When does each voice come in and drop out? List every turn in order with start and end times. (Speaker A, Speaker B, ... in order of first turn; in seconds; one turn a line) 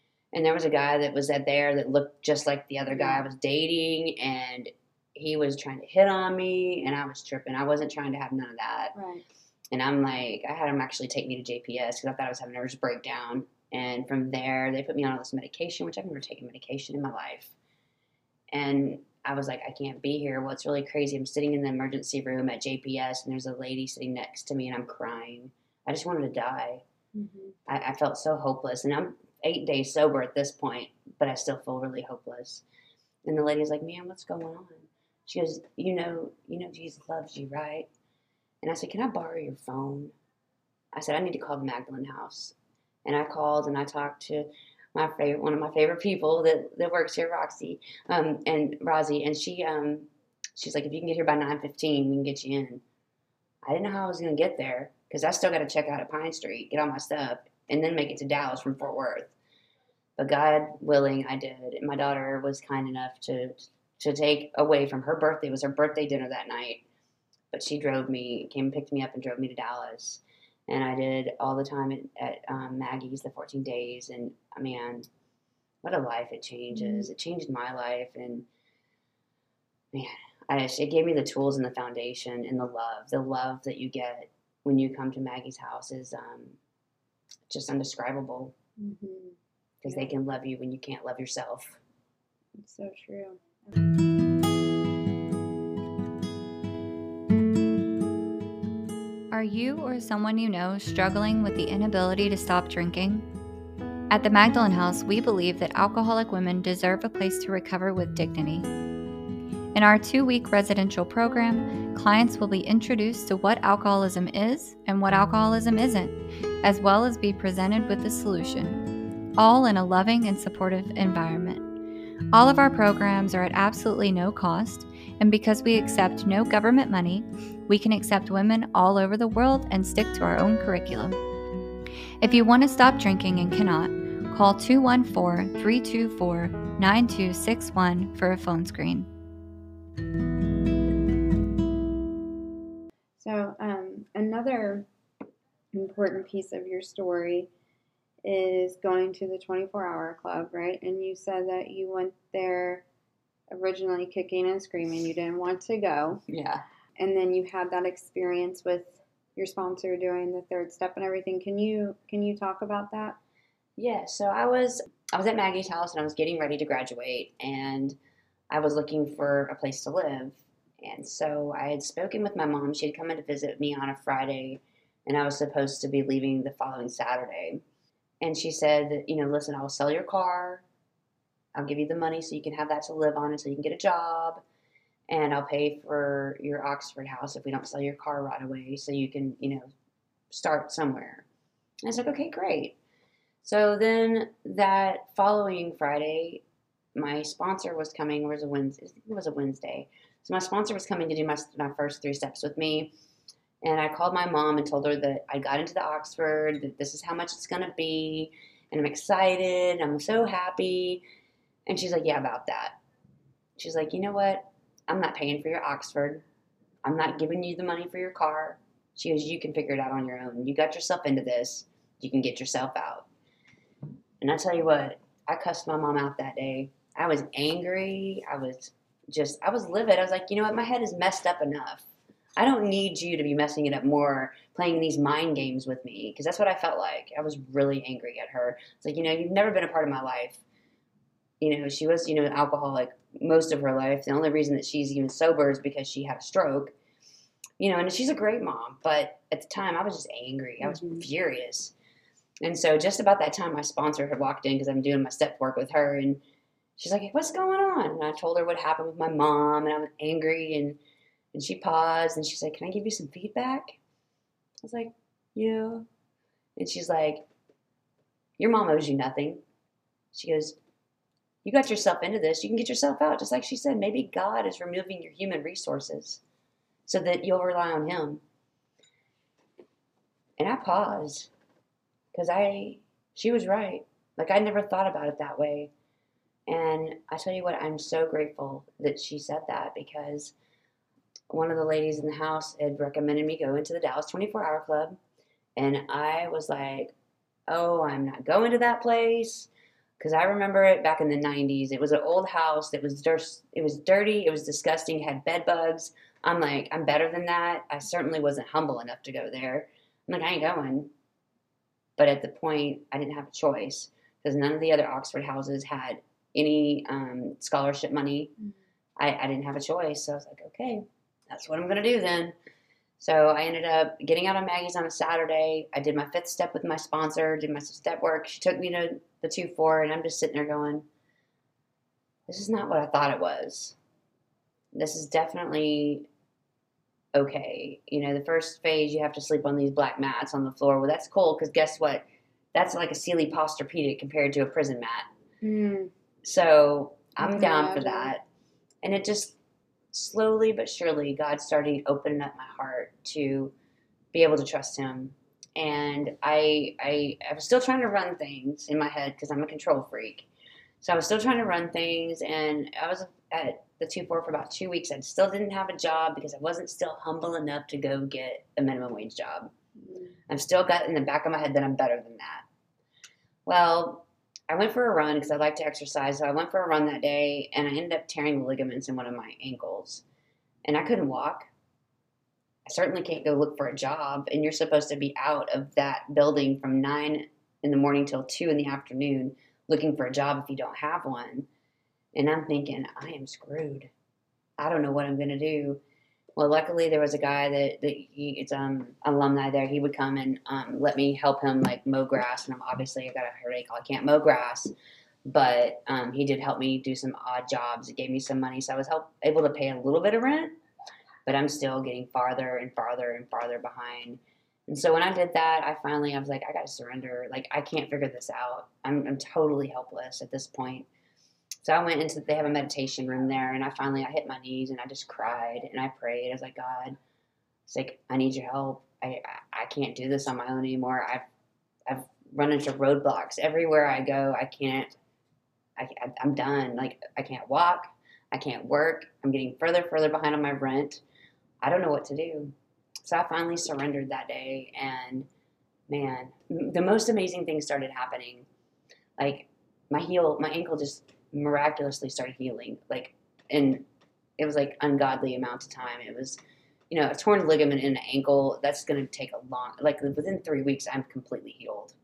Speaker A: 0.3-8.9
Speaker B: 2.9-3.2
Speaker B: 8.9-9.2
Speaker A: 9.7-17.6
Speaker A: 18.5-26.8
Speaker B: 27.1-27.6
Speaker A: 27.7-32.6
Speaker A: 33.2-37.9
Speaker A: 38.6-40.1
Speaker A: 40.9-52.8
Speaker A: 53.6-59.3
Speaker A: 60.2-66.8
Speaker A: 67.5-75.1
Speaker A: 75.8-78.5
Speaker B: 76.7-77.1
Speaker A: 79.9-86.6
Speaker A: 87.5-88.5
Speaker B: 88.8-89.4
Speaker A: 89.8-91.8
Speaker B: 92.6-93.8
Speaker C: 99.3-103.2
Speaker C: 104.1-108.7
Speaker C: 109.7-118.8
Speaker C: 119.4-121.6
Speaker C: 122.3-131.2
Speaker C: 132.2-139.1
Speaker B: 143.2-144.9
Speaker B: 145.7-147.5
Speaker B: 148.2-152.8
Speaker B: 153.5-156.2
Speaker A: 156.3-156.6
Speaker B: 157.0-163.2
Speaker A: 163.8-168.0
Speaker A: 168.5-177.6
Speaker A: 178.2-180.6
Speaker A: 181.5-184.4
Speaker A: 185.1-189.7
Speaker A: 190.3-191.2
Speaker A: 191.8-192.8
Speaker A: 193.4-196.4
Speaker A: 196.9-202.9
Speaker A: 203.6-211.0
Speaker A: 211.7-212.8
Speaker A: 213.6-216.2
Speaker A: 216.8-223.1
Speaker A: 224.2-240.4
Speaker A: 241.4-246.7
Speaker A: 247.6-251.7
Speaker B: 250.6-251.0
Speaker A: 252.4-256.2
Speaker A: 256.8-260.8
Speaker A: 261.3-263.8
Speaker A: 264.6-265.9
Speaker A: 266.6-267.3
Speaker A: 268.4-269.4
Speaker A: 270.1-270.6
Speaker A: 271.4-276.2
Speaker A: 276.9-278.2
Speaker A: 280.4-281.3
Speaker A: 282.1-285.7
Speaker A: 286.5-290.3
Speaker A: 291.3-295.0
Speaker A: 295.6-296.9
Speaker A: 297.5-310.9
Speaker A: 312.0-318.3
Speaker A: 319.0-322.3
Speaker A: 323.0-330.9
Speaker A: 332.3-333.8
Speaker A: 334.7-336.1
Speaker A: 337.1-345.1
Speaker B: 345.4-345.9
Speaker A: 346.2-348.2
Speaker B: 347.2-348.1
Speaker A: 348.8-349.4
Speaker A: 349.9-353.5
Speaker A: 354.1-360.3
Speaker A: 360.8-369.5
Speaker B: 369.8-370.1
Speaker A: 370.3-372.4
Speaker A: 373.4-380.0
Speaker A: 380.6-381.5
Speaker A: 382.6-391.5
Speaker A: 392.1-393.9
Speaker A: 394.6-395.8
Speaker A: 396.4-404.7
Speaker A: 405.2-410.5
Speaker A: 411.2-420.9
Speaker A: 421.6-427.0
Speaker A: 427.7-431.2
Speaker A: 431.9-434.9
Speaker A: 435.8-441.0
Speaker A: 441.6-442.5
Speaker A: 443.0-445.3
Speaker A: 445.9-448.5
Speaker A: 449.2-453.8
Speaker A: 454.4-456.4
Speaker A: 456.9-461.9